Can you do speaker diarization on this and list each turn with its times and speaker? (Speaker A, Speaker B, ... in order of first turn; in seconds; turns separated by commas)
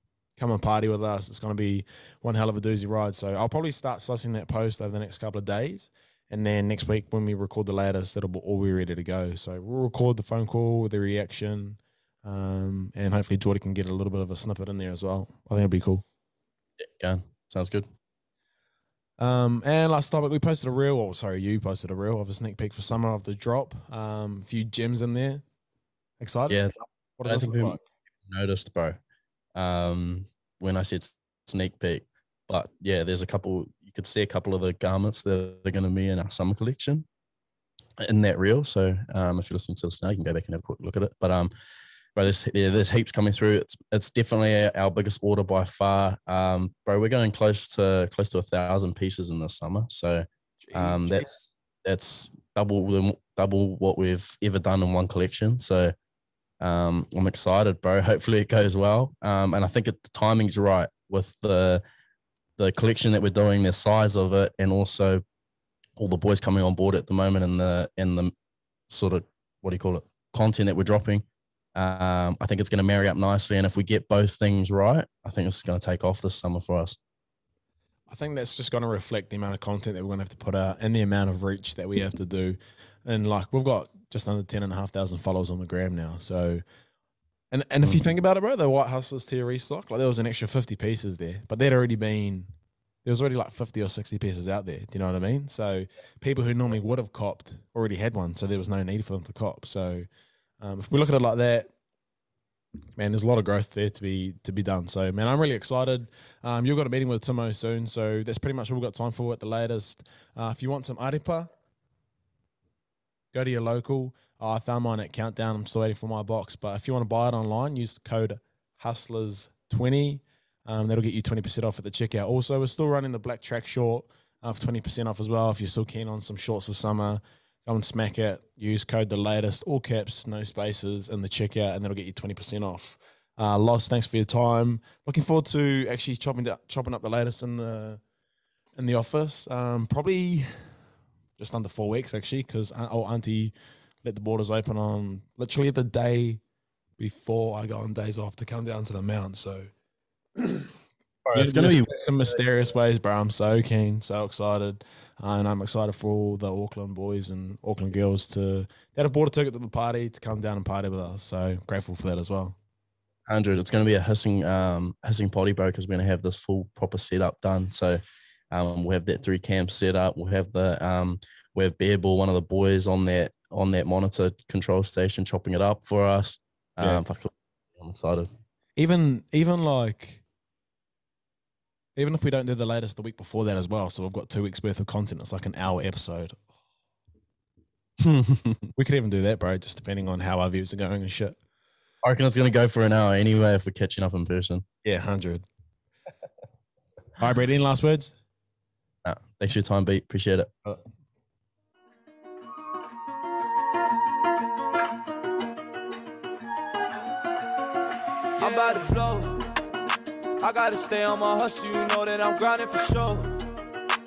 Speaker A: 0.4-16.0, Speaker B: 16.8-17.9, Speaker A: 19.2-25.4, Speaker A: 26.2-26.7, Speaker A: 27.2-27.8, Speaker B: 27.2-29.0, Speaker B: 29.6-37.1, Speaker B: 38.0-41.5, Speaker B: 42.2-55.9, Speaker A: 50.6-51.3, Speaker B: 56.6-61.8, Speaker B: 62.6-65.2, Speaker B: 66.0-68.3, Speaker B: 68.9-77.0, Speaker A: 78.1-86.6, Speaker A: 87.5-92.5, Speaker A: 93.0-100.1, Speaker A: 100.6-101.7, Speaker A: 103.0-111.5, Speaker A: 113.3-138.0, Speaker A: 138.8-140.8, Speaker A: 141.4-143.5, Speaker A: 144.0-146.4, Speaker A: 147.0-149.7, Speaker A: 150.4-150.7, Speaker B: 151.2-152.0, Speaker A: 151.3-162.6, Speaker B: 163.3-168.0, Speaker B: 168.5-178.3, Speaker A: 178.8-180.2, Speaker A: 182.0-186.4, Speaker B: 188.0-188.6, Speaker A: 188.8-191.4, Speaker B: 192.0-194.7, Speaker A: 194.8-195.4, Speaker A: 197.2-198.2, Speaker B: 199.0-200.5, Speaker C: 208.4-209.5, Speaker C: 210.4-213.4